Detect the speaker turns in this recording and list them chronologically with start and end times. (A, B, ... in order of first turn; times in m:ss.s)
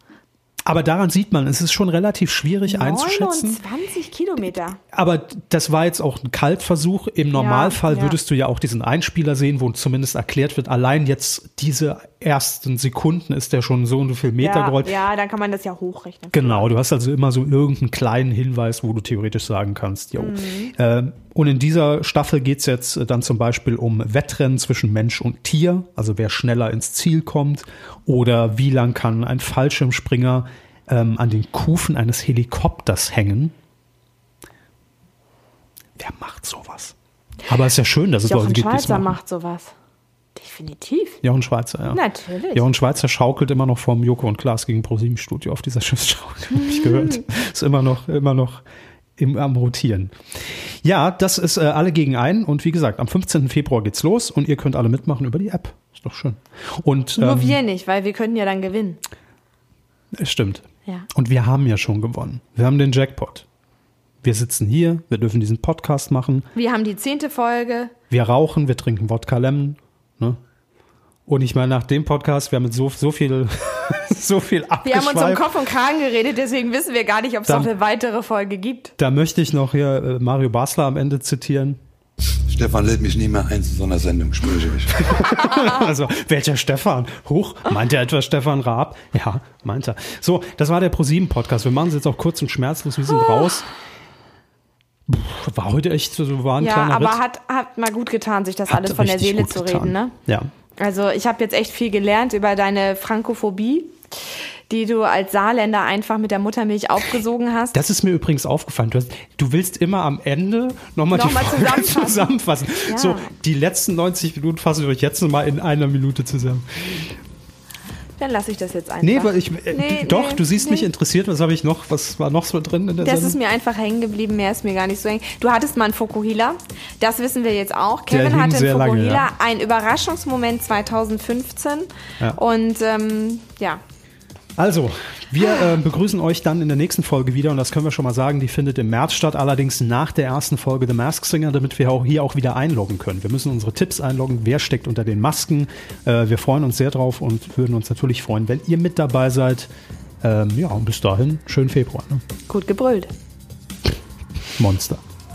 0:00.6-0:03.6 A
0:02.7-0:04.8 B
0:04.8-0:15.0 A
0:07.3-0:08.2 B
0:14.4-0:16.7 B
0:16.3-0:33.5 A
0:20.2-0:20.7 B
0:36.0-0:36.9 A
0:37.5-0:39.2 A
0:38.3-0:39.7 B
0:40.4-0:41.2 B
0:41.2-0:42.0 A
0:41.9-0:42.6 B
0:42.5-0:48.6 A
0:46.5-0:47.2 B
0:49.2-0:57.6 A
0:57.2-0:59.0 B
1:00.1-1:03.4 A
1:04.2-1:06.5 A
1:06.5-1:07.9 B
1:08.1-1:10.4 A
1:11.3-1:15.5 A
1:14.8-1:18.9 B
1:19.0-1:21.8 A
1:22.5-1:25.1 C
1:24.9-1:33.7 A
1:25.2-1:25.8 B
1:35.1-1:37.2 A
1:36.6-1:40.1 B
1:38.7-1:40.5 A
1:40.8-1:44.0 B
1:44.7-1:47.8 B
1:47.7-1:57.1 A
1:51.1-1:52.3 B
1:52.8-1:53.3 B
1:58.2-2:00.9 B
1:59.0-2:03.4 A
2:03.0-2:13.8 B
2:08.1-2:09.3 A
2:14.6-2:29.7 A
2:30.2-2:32.2 A
2:32.5-2:33.1 B
2:34.6-2:35.0 A